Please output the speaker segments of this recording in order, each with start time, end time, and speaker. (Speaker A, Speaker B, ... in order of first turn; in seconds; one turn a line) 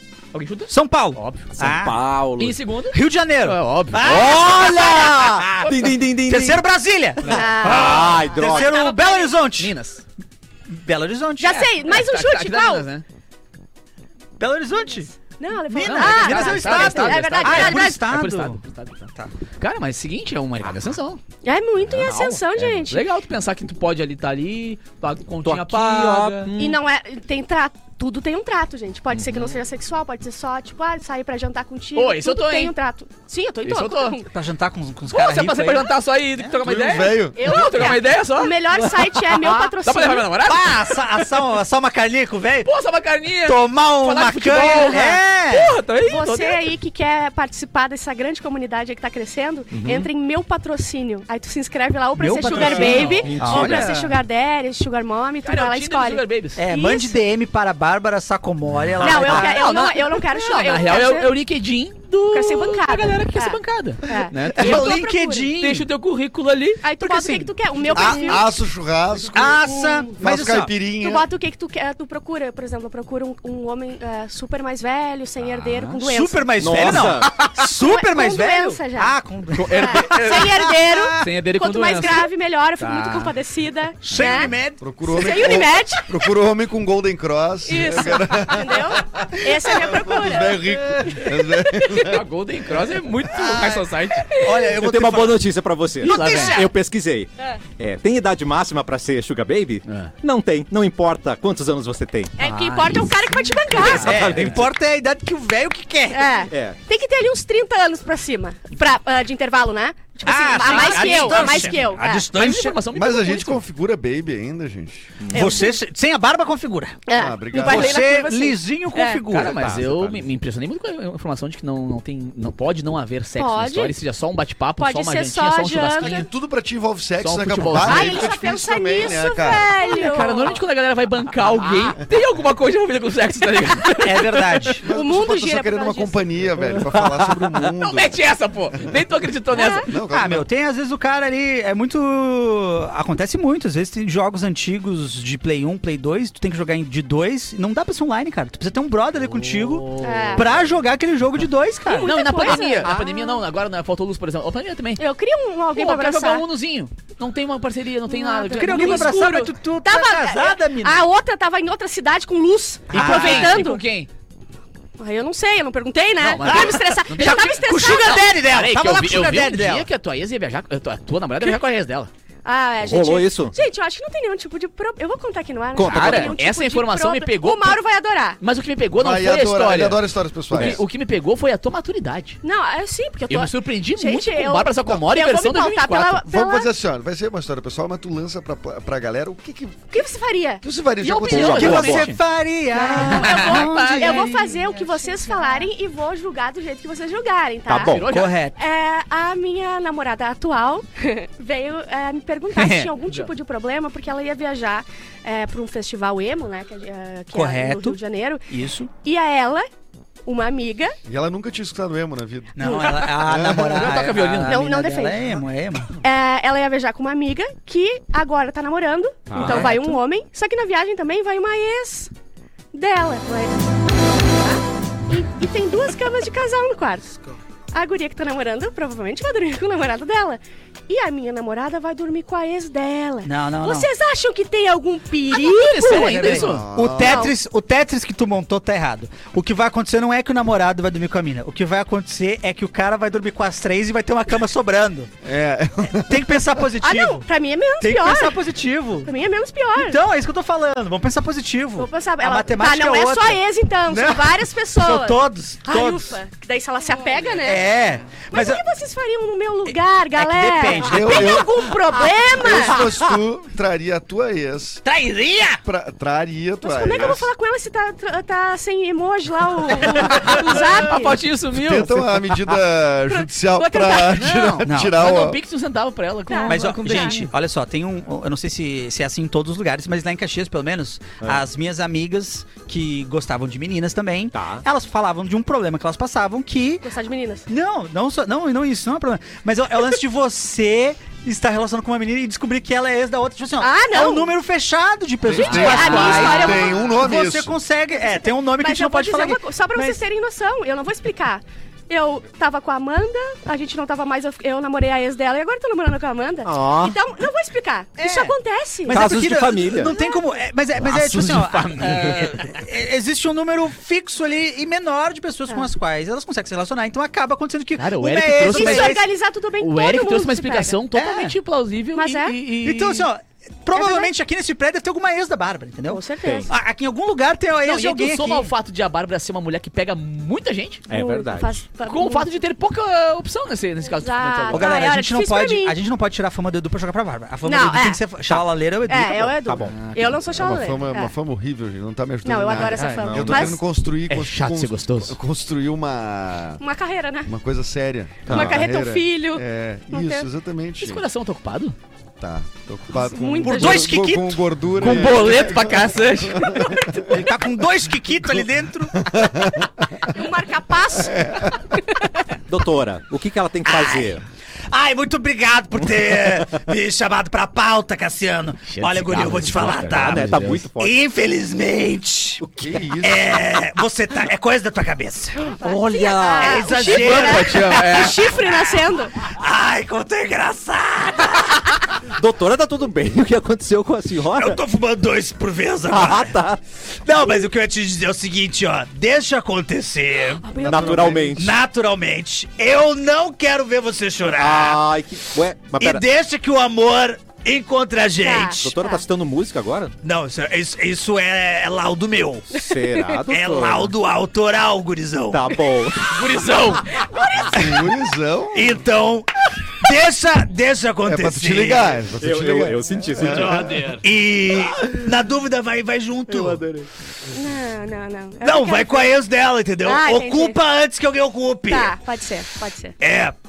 Speaker A: 0.3-1.6
Speaker B: 0.7-2.0
Speaker C: 1.6-2.6
Speaker A: 2.4-4.5
Speaker B: 2.9-5.7
Speaker C: 4.0-6.6
Speaker B: 6.2-9.7
Speaker D: 7.3-9.2
Speaker C: 7.3-8.8
Speaker A: 8.6-10.0
Speaker B: 10.7-11.7
Speaker D: 11.4-12.8
Speaker A: 11.8-13.0
Speaker B: 14.4-15.1
Speaker D: 15.4-18.0
Speaker B: 15.7-18.6
Speaker A: 15.8-21.2
Speaker D: 21.4-23.1
Speaker A: 21.8-26.5
Speaker C: 25.4-26.8
Speaker D: 26.6-34.3
Speaker C: 29.1-29.6
Speaker A: 31.9-32.7
Speaker A: 33.6-34.2
Speaker B: 34.3-35.9
Speaker A: 35.1-41.1
Speaker E: 36.6-37.4
Speaker D: 37.4-40.3
Speaker B: 40.4-42.7
Speaker A: 42.6-46.7
Speaker B: 43.4-45.7
Speaker D: 44.9-45.1
Speaker D: 46.0-57.2
Speaker C: 49.7-50.1
Speaker B: 52.1-54.1
Speaker A: 52.5-53.3
Speaker C: 52.5-54.0
Speaker A: 55.4-56.6
Speaker B: 56.6-59.6
Speaker D: 59.0-61.3
Speaker A: 59.0-65.0
Speaker D: 62.3-65.5
Speaker B: 64.5-65.9
Speaker A: 65.6-66.9
Speaker D: 66.8-68.5
Speaker B: 67.0-68.4
Speaker E: 67.9-71.3
Speaker B: 69.3-70.7
Speaker D: 69.8-70.0
Speaker D: 71.0-77.0
Speaker A: 75.5-75.9
Speaker B: 76.0-81.3
Speaker C: 76.6-77.4
Speaker D: 77.5-79.2
Speaker A: 79.5-83.3
Speaker D: 79.7-84.5
Speaker B: 84.0-84.8
Speaker E: 84.8-92.2
Speaker D: 85.0-86.1
Speaker D: 87.7-92.1
Speaker A: 92.0-94.3
Speaker B: 93.4-93.7
Speaker D: 94.3-94.7
Speaker B: 94.3-95.4
Speaker C: 94.7-102.3
Speaker B: 96.0-96.7
Speaker A: 96.0-96.6
Speaker A: 99.9-100.1
Speaker D: 102.4-104.3
Speaker B: 102.4-103.0
Speaker C: 103.8-104.7
Speaker B: 103.8-106.3
Speaker D: 106.1-112.3
Speaker C: 106.5-106.8
Speaker B: 110.2-112.8
Speaker A: 110.6-113.6
Speaker E: 112.9-115.1
Speaker C: 115.2-115.6
Speaker B: 115.3-117.0
Speaker D: 115.3-115.8
Speaker D: 117.1-119.2
Speaker E: 117.1-118.0
Speaker B: 117.5-119.5
Speaker A: 119.3-126.3
Speaker C: 119.4-120.3
Speaker D: 123.4-124.0
Speaker D: 124.8-126.3
Speaker E: 126.0-129.7
Speaker A: 127.2-128.3
Speaker D: 127.8-130.6
Speaker A: 129.8-134.7
Speaker B: 134.0-134.8
Speaker E: 134.8-138.2
Speaker D: 134.9-136.3
Speaker C: 136.7-137.7
Speaker A: 137.8-139.9
Speaker D: 139.5-139.9
Speaker E: 139.8-140.4
Speaker B: 140.1-152.6
Speaker A: 149.4-150.5
Speaker D: 150.0-150.5
Speaker D: 151.9-153.4
Speaker A: 152.0-155.0
Speaker D: 155.0-156.4
Speaker A: 155.7-159.2
Speaker D: 158.1-163.8
Speaker B: 158.5-161.0
Speaker B: 162.9-163.6
Speaker A: 162.9-164.1
Speaker D: 165.0-168.3
Speaker A: 166.2-172.1
Speaker B: 166.4-169.9
Speaker D: 172.4-178.4
Speaker C: 172.8-173.5
Speaker C: 175.7-176.4
Speaker A: 175.8-177.8
Speaker A: 178.4-182.4
Speaker E: 178.9-180.8
Speaker C: 180.5-180.8
Speaker D: 182.4-186.7
Speaker A: 183.3-186.2
Speaker E: 186.2-189.9
Speaker D: 189.9-190.6
Speaker E: 190.6-191.8
Speaker A: 191.0-192.2
Speaker C: 191.3-192.1
Speaker B: 191.5-195.7
Speaker D: 192.7-198.1
Speaker A: 193.0-194.3
Speaker C: 197.7-198.1
Speaker A: 197.8-198.4
Speaker B: 198.1-198.6
Speaker D: 198.6-208.4
Speaker B: 202.6-202.9
Speaker A: 203.0-203.3
Speaker B: 207.3-208.9
Speaker D: 209.0-209.7
Speaker D: 210.2-210.9
Speaker E: 211.1-214.1
Speaker B: 212.6-215.9
Speaker D: 212.6-213.0
Speaker A: 213.5-214.6
Speaker D: 214.4-215.4
Speaker D: 216.0-222.1
Speaker C: 219.3-219.8
Speaker D: 222.7-223.6
Speaker D: 224.2-227.1
Speaker D: 227.7-236.4
Speaker B: 233.2-233.9
Speaker A: 235.3-236.7
Speaker B: 235.9-245.1
Speaker E: 236.4-237.3
Speaker D: 237.0-237.3
Speaker E: 245.2-246.6
Speaker B: 245.9-247.3
Speaker D: 246.8-248.4
Speaker B: 247.8-249.1
Speaker D: 249.1-250.0
Speaker B: 249.8-256.2
Speaker D: 251.8-257.7
Speaker B: 257.4-258.6
Speaker D: 258.3-262.9
Speaker B: 259.6-262.8
Speaker E: 260.8-261.6
Speaker E: 262.4-264.8
Speaker B: 264.8-265.6
Speaker E: 265.6-267.3
Speaker D: 266.6-271.2
Speaker A: 269.9-272.1
Speaker E: 271.5-275.4
Speaker D: 273.1-274.1
Speaker A: 273.9-277.3
Speaker B: 274.6-275.0
Speaker D: 276.3-277.2
Speaker B: 276.4-286.9
Speaker C: 284.3-284.6
Speaker D: 286.8-287.4
Speaker B: 287.5-300.0
Speaker D: 293.6-294.3
Speaker A: 295.3-296.4
Speaker E: 295.4-297.6
Speaker D: 295.4-296.9
Speaker D: 298.6-309.1
Speaker C: 306.4-306.9
Speaker B: 308.0-319.0
Speaker C: 308.9-309.9
Speaker D: 309.8-310.2
Speaker A: 310.8-312.6
Speaker A: 317.8-319.1
Speaker D: 318.5-320.7
Speaker A: 319.6-323.1
Speaker B: 320.9-321.4
Speaker D: 321.9-322.4
Speaker B: 322.6-328.5
Speaker D: 323.7-324.1
Speaker D: 325.9-326.5
Speaker C: 326.2-326.5
Speaker A: 327.6-330.8
Speaker C: 330.9-331.7
Speaker D: 330.9-332.3
Speaker A: 331.8-334.7
Speaker D: 333.9-335.7
Speaker B: 334.5-339.3
Speaker D: 337.4-338.0
Speaker D: 338.9-341.1
Speaker C: 339.4-339.9
Speaker A: 339.7-340.3
Speaker E: 340.4-346.6
Speaker D: 342.2-343.6
Speaker C: 342.8-343.6
Speaker A: 344.1-345.2
Speaker D: 346.6-347.3
Speaker E: 347.2-351.1
Speaker C: 348.2-348.6
Speaker D: 348.3-350.3
Speaker A: 350.8-351.8
Speaker E: 352.2-357.1
Speaker D: 352.9-354.1
Speaker B: 353.4-354.4
Speaker A: 354.8-356.7
Speaker D: 356.4-357.4
Speaker B: 357.1-359.0
Speaker E: 358.9-359.7
Speaker D: 360.1-362.2
Speaker E: 361.0-361.8
Speaker C: 362.5-364.2
Speaker B: 363.6-372.4
Speaker A: 368.7-370.6
Speaker C: 369.9-371.0
Speaker E: 372.4-373.4
Speaker B: 373.0-375.6
Speaker C: 375.6-376.7
Speaker D: 375.6-379.1
Speaker B: 376.4-381.8
Speaker A: 376.8-378.4
Speaker C: 382.0-384.6
Speaker B: 384.3-386.4
Speaker C: 385.9-386.6
Speaker B: 387.0-390.4
Speaker D: 390.4-391.2
Speaker E: 390.6-391.4
Speaker C: 390.6-391.5
Speaker B: 391.2-394.8
Speaker C: 394.3-396.1
Speaker B: 395.8-398.7
Speaker D: 398.2-399.1
Speaker C: 398.6-399.9
Speaker B: 400.0-402.5
Speaker C: 402.5-403.9
Speaker D: 402.7-403.1
Speaker B: 403.3-405.5
Speaker C: 405.3-406.6
Speaker A: 406.1-406.8
Speaker E: 407.5-408.8
Speaker B: 408.5-411.9
Speaker E: 411.1-413.8
Speaker C: 412.2-414.0
Speaker A: 413.3-414.0
Speaker B: 413.9-416.6
Speaker C: 416.3-416.9
Speaker D: 417.3-419.1
Speaker B: 418.4-421.9
Speaker D: 419.8-420.6
Speaker D: 421.7-423.0
Speaker B: 423.0-423.4